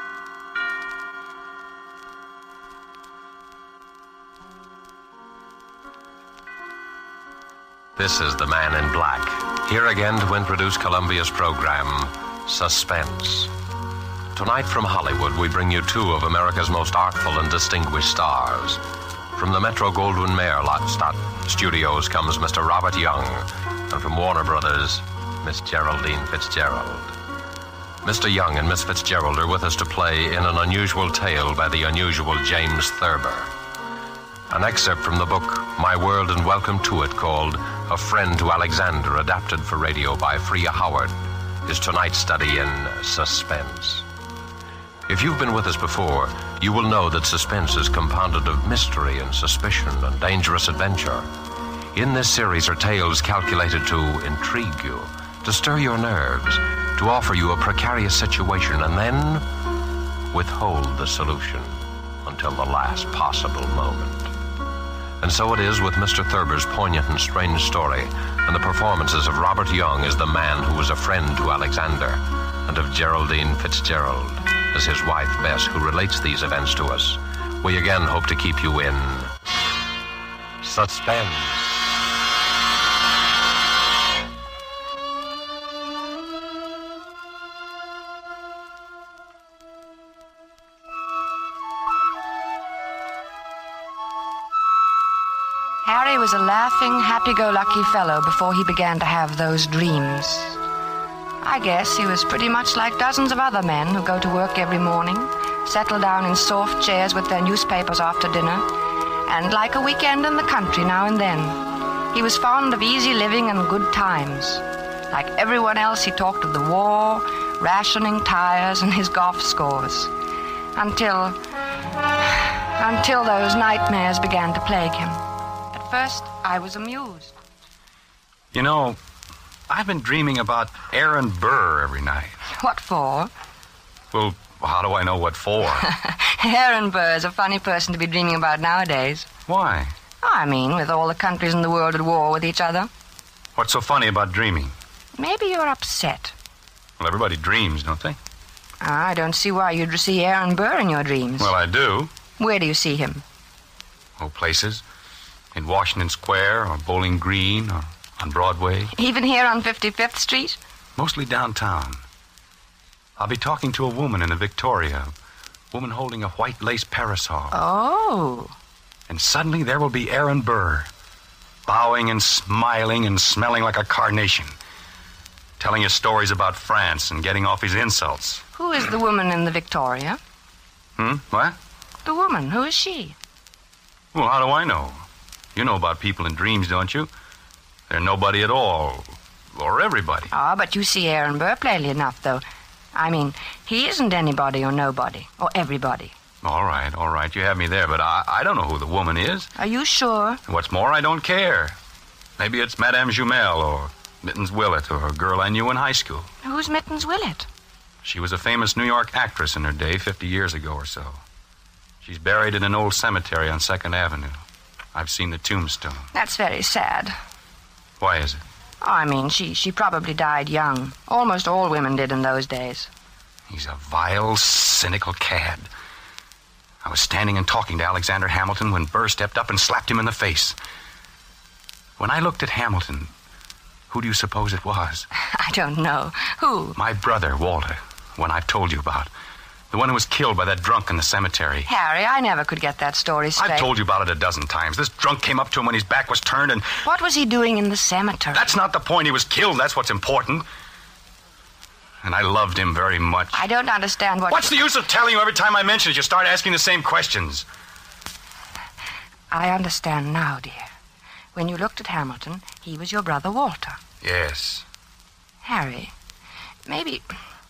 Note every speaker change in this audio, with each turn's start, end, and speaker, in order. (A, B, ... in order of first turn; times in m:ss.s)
0:07.9-0:13.5 A
0:14.3-0:18.8 A
0:19.3-0:27.2 A
0:28.0-0:33.5 A
0:34.5-0:44.1 A
0:45.1-0:51.3 A
0:51.9-0:59.5 A
1:00.3-1:04.3 A
1:05.2-1:19.3 A
1:20.6-1:22.0 A
1:35.8-1:40.6 B
1:41.4-1:48.6 B
1:49.2-1:51.6 B
1:52.1-2:00.1 B
2:00.8-2:01.4 B
2:02.2-2:07.3 B
2:08.5-2:09.0 C
2:09.7-2:12.4 C
2:12.6-2:13.3 B
2:14.1-2:15.9 C
2:15.8-2:19.3 B
2:19.5-2:19.9 C
2:20.2-2:22.9 B
2:23.6-2:24.7 C
2:25.2-2:26.3 B
2:27.0-2:28.2 C
2:28.8-2:31.5 B
2:31.4-2:32.1 C
2:32.4-2:33.2 B
2:34.2-2:34.8 C
2:35.5-2:38.9 C
2:38.9-2:40.6 B
2:41.0-2:42.0 C
2:43.2-2:45.1 C
2:45.7-2:47.5 C
2:47.5-2:48.5 B
2:49.1-2:50.9 C
2:51.6-2:54.5 C
2:55.6-2:58.4 C
2:58.5-3:00.2 B
3:01.0-3:01.6 C
3:02.0-3:03.2 B
3:04.1-3:05.0 C
3:05.5-3:07.1 C
3:07.9-3:10.3 C
3:10.3-3:12.4 B
3:12.9-3:16.1 B
3:16.4-3:19.5 C
3:19.6-3:20.4 B
3:20.5-3:21.7 C
3:22.4-3:26.3 C
3:26.4-3:27.5 B
3:28.0-3:31.2 C
3:32.0-3:34.4 C
3:34.9-3:36.1 C
3:36.1-3:37.2 B
3:38.0-3:38.4 C
3:38.8-3:42.9 B
3:43.5-3:45.7 C
3:46.8-3:50.6 C
3:52.0-3:53.1 C
3:53.9-3:55.1 C
3:55.3-3:56.8 B
3:56.8-3:59.1 C
3:59.7-4:01.7 C
4:01.6-4:03.7 B
4:03.4-4:06.8 C
4:06.8-4:08.4 B
4:08.3-4:10.4 C
4:12.0-4:13.4 C
4:13.3-4:14.6 B
4:14.3-4:17.4 C
4:19.3-4:20.7 B
4:21.3-4:23.8 B
4:24.0-4:24.6 C
4:25.4-4:25.9 B
4:26.6-4:27.0 B